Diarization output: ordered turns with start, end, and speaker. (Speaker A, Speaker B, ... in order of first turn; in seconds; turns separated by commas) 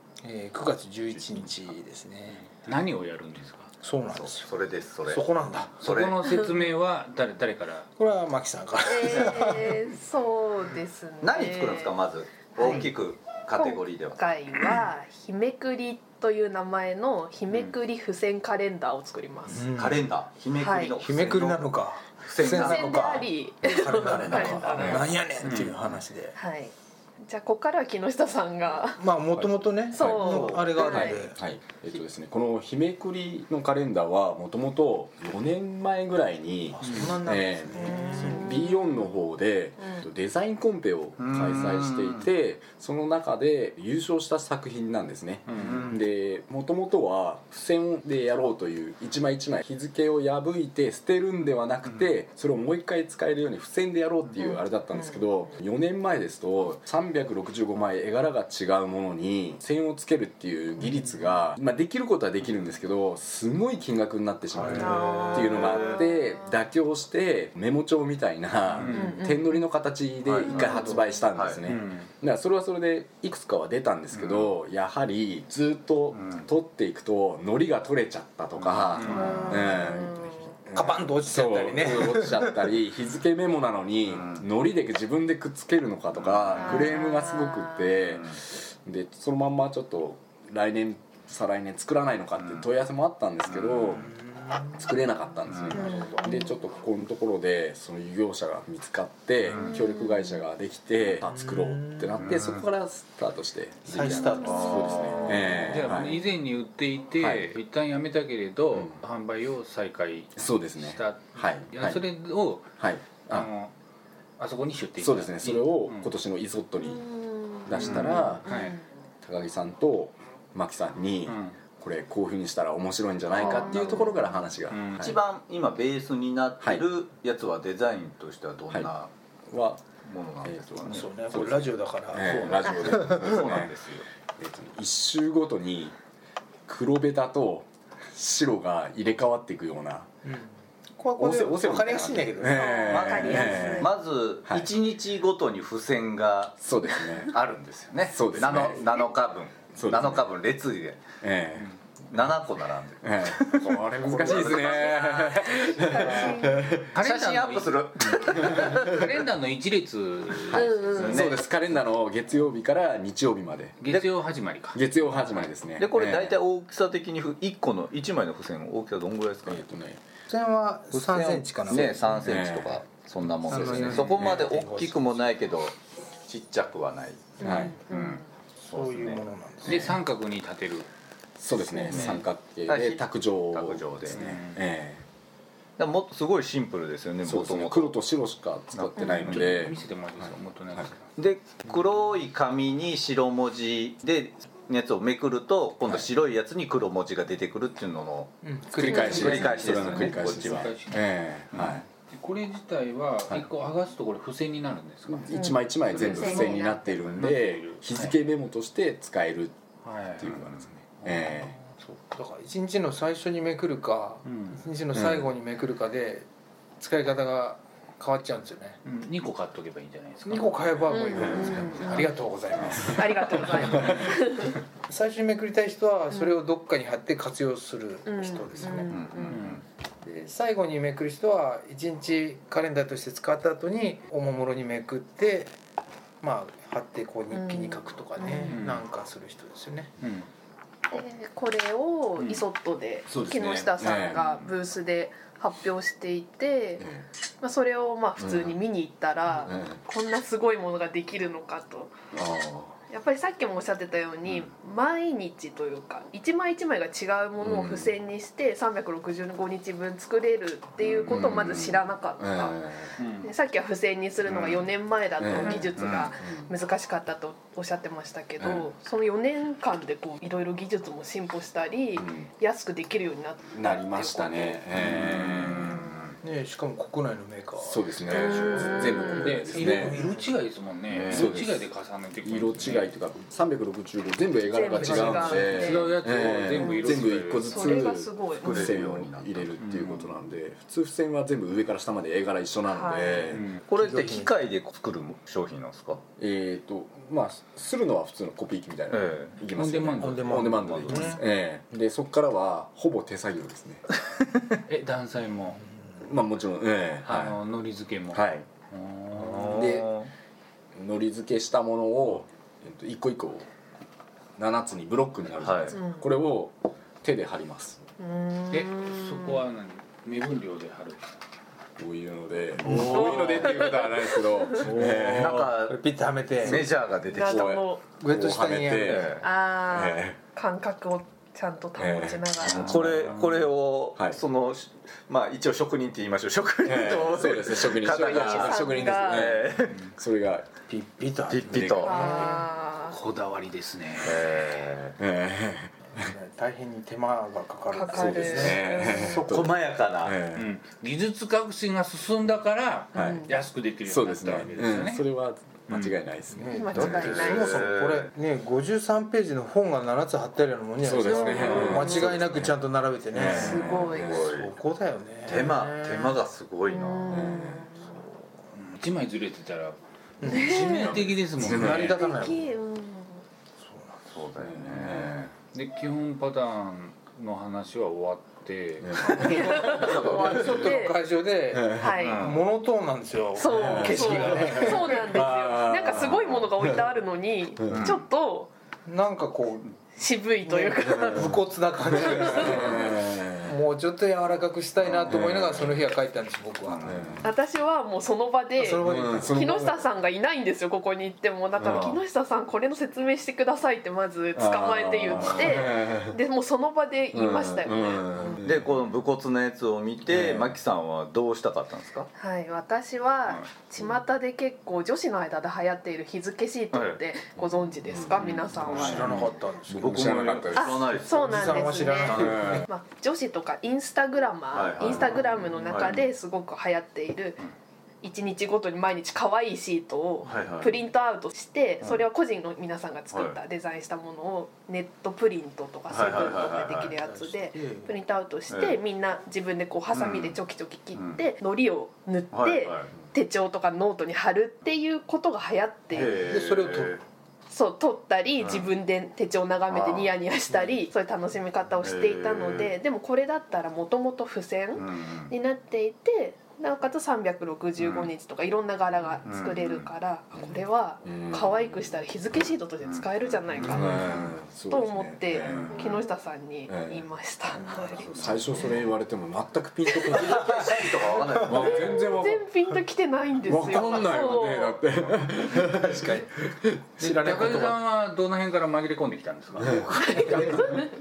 Speaker A: 0.2-2.5, Speaker B: 1.1-1.5, Speaker C: 2.6-3.7, Speaker A: 3.8-5.8, Speaker B: 4.1-5.3, Speaker B: 5.8-6.4, Speaker C: 5.8-7.9, Speaker A: 8.0-9.9, Speaker D: 8.8-12.0, Speaker B: 11.2-14.2, Speaker D: 12.5-12.9, Speaker D: 13.6-19.7, Speaker A: 19.5-20.1, Speaker B: 19.7-23.3, Speaker D: 20.6-21.0, Speaker A: 20.9-26.3, Speaker D: 22.5-25.1, Speaker B: 24.0-24.6, Speaker C: 24.8-25.8, Speaker D: 26.3-29.0, Speaker A: 29.0-31.4, Speaker E: 29.4-94.1, Speaker D: 29.9-31.2, Speaker A: 36.7-38.6, Speaker C: 36.8-37.1, Speaker D: 37.8-38.8, Speaker B: 41.2-42.3, Speaker C: 45.5-45.8, Speaker B: 45.6-46.0, Speaker D: 54.4-55.2, Speaker A: 64.5-65.0, Speaker D: 64.7-66.3, Speaker B: 65.0-66.0, Speaker C: 68.8-69.2, Speaker D: 68.9-69.5, Speaker B: 70.2-71.6, Speaker D: 70.5-71.0, Speaker C: 71.7-72.1, Speaker C: 74.1-74.5, Speaker B: 76.1-76.5, Speaker B: 78.6-78.8, Speaker C: 78.9-79.6, Speaker D: 79.0-80.5, Speaker A: 80.7-82.7, Speaker B: 84.1-84.4, Speaker B: 86.1-86.9, Speaker D: 86.6-87.9, Speaker B: 88.2-88.4, Speaker B: 93.5-94.1, Speaker A: 94.1-94.8, Speaker E: 94.6-106.2, Speaker B: 95.5-95.8, Speaker A: 95.7-96.2, Speaker D: 95.7-96.5, Speaker D: 99.7-100.1, Speaker A: 101.2-102.3, Speaker B: 102.2-102.6, Speaker A: 103.9-105.0, Speaker D: 104.4-104.8, Speaker B: 104.5-105.3, Speaker C: 105.4-113.7, Speaker E: 107.2-107.5, Speaker E: 108.7-109.0, Speaker E: 110.3-112.0, Speaker E: 112.8-113.5, Speaker C: 114.4-116.1, Speaker E: 115.0-118.5, Speaker D: 116.8-118.8, Speaker C: 117.7-118.8, Speaker E: 119.2-125.2, Speaker C: 121.2-121.6, Speaker D: 123.4-124.3, Speaker C: 123.4-124.1, Speaker C: 124.7-125.2, Speaker B: 125.0-129.1, Speaker E: 129.5-129.8, Speaker B: 130.0-131.5, Speaker E: 130.4-133.7, Speaker A: 130.8-133.2, Speaker B: 132.2-134.0, Speaker E: 134.4-135.9, Speaker E: 136.7-140.1, Speaker A: 140.2-143.7, Speaker E: 141.2-143.9, Speaker D: 142.5-143.9, Speaker B: 143.8-151.0, Speaker E: 146.6-147.4, Speaker E: 148.1-148.9, Speaker E: 149.7-150.2, Speaker E: 151.2-151.7, Speaker B: 152.1-156.0, Speaker E: 153.0-156.9, Speaker D: 154.9-156.7, Speaker B: 156.8-159.0, Speaker C: 156.9-157.7, Speaker C: 158.2-161.1, Speaker E: 158.3-158.8, Speaker E: 160.5-163.8, Speaker D: 160.5-161.3, Speaker B: 161.0-161.4, Speaker C: 163.8-165.5, Speaker E: 164.7-166.3, Speaker B: 165.8-169.6, Speaker E: 169.4-170.0, Speaker A: 170.3-172.3, Speaker B: 170.9-175.7, Speaker E: 171.7-172.8, Speaker A: 173.4-175.4, Speaker E: 173.5-174.3, Speaker B: 176.3-177.4, Speaker E: 177.4-177.7, Speaker D: 177.4-178.2, Speaker A: 177.4-177.7, Speaker B: 178.0-179.3, Speaker A: 178.6-180.0, Speaker C: 179.6-180.9, Speaker E: 181.4-185.0, Speaker C: 181.7-182.2, Speaker B: 182.7-184.2, Speaker C: 184.1-184.6, Speaker B: 185.8-187.9, Speaker E: 187.2-190.9, Speaker B: 188.7-189.4, Speaker C: 189.2-191.1, Speaker B: 191.2-198.3, Speaker A: 198.4-199.9, Speaker E: 198.8-201.8, Speaker B: 198.9-200.7, Speaker D: 198.9-199.3, Speaker C: 199.0-205.3, Speaker E: 205.1-209.6, Speaker D: 205.3-207.2, Speaker C: 205.9-208.2, Speaker C: 209.8-210.5, Speaker E: 210.2-211.6, Speaker A: 211.1-216.2, Speaker C: 214.2-214.6, Speaker A: 216.8-218.8, Speaker C: 218.8-222.8, Speaker A: 220.2-224.0, Speaker D: 220.9-222.1, Speaker D: 222.7-224.6, Speaker C: 223.6-223.9, Speaker A: 224.9-229.1, Speaker D: 228.1-229.4, Speaker B: 228.9-229.6, Speaker C: 229.3-229.6, Speaker A: 230.0-235.5, Speaker A: 236.2-239.9, Speaker D: 237.3-238.6, Speaker C: 238.4-238.8, Speaker C: 240.0-240.3, Speaker D: 240.9-251.9, Speaker E: 243.1-244.4, Speaker E: 248.2-248.6, Speaker E: 249.4-249.8, Speaker E: 252.1-252.8, Speaker D: 252.9-275.9, Speaker E: 257.4-257.9, Speaker E: 260.8-263.0, Speaker C: 260.9-261.2, Speaker C: 263.0-263.3, Speaker E: 265.2-266.5, Speaker C: 265.4-265.7, Speaker E: 268.4-268.7, Speaker E: 271.9-272.3, Speaker E: 273.5-275.8, Speaker C: 274.8-275.7, Speaker B: 275.2-275.6, Speaker A: 276.2-280.2, Speaker E: 277.6-280.0, Speaker D: 278.1-279.3, Speaker C: 279.2-282.9, Speaker E: 280.9-281.7, Speaker E: 282.2-293.5, Speaker D: 284.4-285.9, Speaker A: 284.8-285.5, Speaker C: 285.1-287.9, Speaker D: 286.6-288.6, Speaker B: 288.4-289.5, Speaker C: 289.6-290.2, Speaker D: 292.6-293.4, Speaker C: 293.3-293.6, Speaker B: 293.7-296.0, Speaker A: 293.7-294.4, Speaker E: 296.2-303.8, Speaker B: 298.9-299.4, Speaker C: 299.5-300.5, Speaker A: 300.0-301.2, Speaker B: 300.5-301.1, Speaker C: 304.7-305.6, Speaker E: 306.0-307.4, Speaker C: 307.0-309.7, Speaker E: 308.1-308.5, Speaker B: 309.2-310.1, Speaker E: 309.5-309.9, Speaker E: 310.7-313.5, Speaker E: 314.4-317.8, Speaker B: 315.4-315.8, Speaker D: 315.7-316.1, Speaker D: 318.0-319.4, Speaker C: 318.5-321.1, Speaker E: 321.8-325.6, Speaker B: 322.6-323.5, Speaker D: 322.7-324.6, Speaker B: 324.6-325.8, Speaker A: 324.9-326.8, Speaker B: 326.4-327.4, Speaker E: 326.4-329.1, Speaker D: 327.1-327.8, Speaker A: 328.0-329.1, Speaker B: 328.9-329.2, Speaker D: 329.2-332.9, Speaker E: 329.7-330.2, Speaker E: 331.8-333.1, Speaker B: 332.6-339.9, Speaker E: 336.6-340.5, Speaker D: 337.9-339.4, Speaker A: 340.7-342.5, Speaker B: 341.3-342.0, Speaker E: 341.4-342.1, Speaker D: 341.8-343.0, Speaker C: 342.9-344.2, Speaker B: 344.0-345.0, Speaker E: 345.0-346.0, Speaker A: 345.9-349.5, Speaker D: 347.7-349.2, Speaker E: 347.9-350.5, Speaker B: 349.2-350.2, Speaker C: 350.3-355.0, Speaker E: 352.9-353.3, Speaker D: 352.9-353.3, Speaker E: 353.8-357.4, Speaker C: 355.7-355.9, Speaker A: 356.3-366.2, Speaker D: 356.5-357.6, Speaker B: 357.0-358.1, Speaker E: 360.8-362.5, Speaker D: 361.0-362.3, Speaker E: 363.1-364.3, Speaker D: 363.2-364.2, Speaker B: 364.1-364.5, Speaker B: 365.2-367.1, Speaker D: 366.7-368.0, Speaker E: 367.1-367.7, Speaker C: 368.6-372.0, Speaker A: 370.2-372.6, Speaker D: 370.2-371.0, Speaker E: 370.7-372.0, Speaker D: 371.8-373.2, Speaker A: 373.6-374.3, Speaker B: 374.1-375.3, Speaker E: 374.4-375.2, Speaker C: 375.5-379.6, Speaker E: 378.8-379.3, Speaker D: 378.9-381.0, Speaker A: 379.2-385.2, Speaker B: 379.8-380.3, Speaker D: 381.7-382.3, Speaker D: 383.3-388.5, Speaker E: 383.5-386.9, Speaker E: 387.6-387.9, Speaker B: 387.7-388.0, Speaker A: 388.9-389.7, Speaker D: 389.9-391.4, Speaker A: 390.4-397.2, Speaker D: 391.9-392.9, Speaker E: 392.1-393.6, Speaker E: 394.8-395.9, Speaker B: 396.6-397.2, Speaker E: 396.8-397.3, Speaker D: 397.2-408.4, Speaker A: 398.6-399.4, Speaker E: 398.8-399.8, Speaker E: 401.6-402.0, Speaker E: 404.3-406.2, Speaker E: 407.1-408.7, Speaker B: 408.4-412.1, Speaker E: 410.1-410.6, Speaker D: 412.1-419.2, Speaker B: 416.7-417.0, Speaker E: 417.4-421.0, Speaker B: 418.2-419.1, Speaker A: 418.7-420.1, Speaker B: 419.8-422.6, Speaker D: 420.5-427.4, Speaker A: 421.1-422.6, Speaker E: 422.1-422.6, Speaker B: 424.5-426.0, Speaker A: 424.9-425.4, Speaker D: 428.0-446.2, Speaker B: 430.2-430.8, Speaker B: 433.1-433.4, Speaker B: 435.9-436.9, Speaker A: 436.9-437.9, Speaker B: 438.5-438.8, Speaker B: 439.9-440.4, Speaker B: 440.9-441.2, Speaker B: 442.3-442.9, Speaker B: 445.9-447.0, Speaker A: 446.2-446.9, Speaker D: 447.5-468.4, Speaker B: 448.4-448.7, Speaker B: 449.7-450.1, Speaker B: 451.8-452.8, Speaker B: 454.8-455.3, Speaker B: 457.8-458.1, Speaker B: 459.2-459.9, Speaker E: 460.3-461.8, Speaker B: 462.8-464.3, Speaker E: 463.6-466.0, Speaker E: 466.7-472.4, Speaker A: 467.5-468.1, Speaker B: 470.2-472.0, Speaker D: 471.5-474.8, Speaker C: 471.7-472.1, Speaker E: 473.4-477.4, Speaker A: 475.5-476.4, Speaker A: 477.0-477.8, Speaker C: 477.0-480.2, Speaker E: 479.6-480.8, Speaker D: 480.1-480.8, Speaker A: 480.2-480.8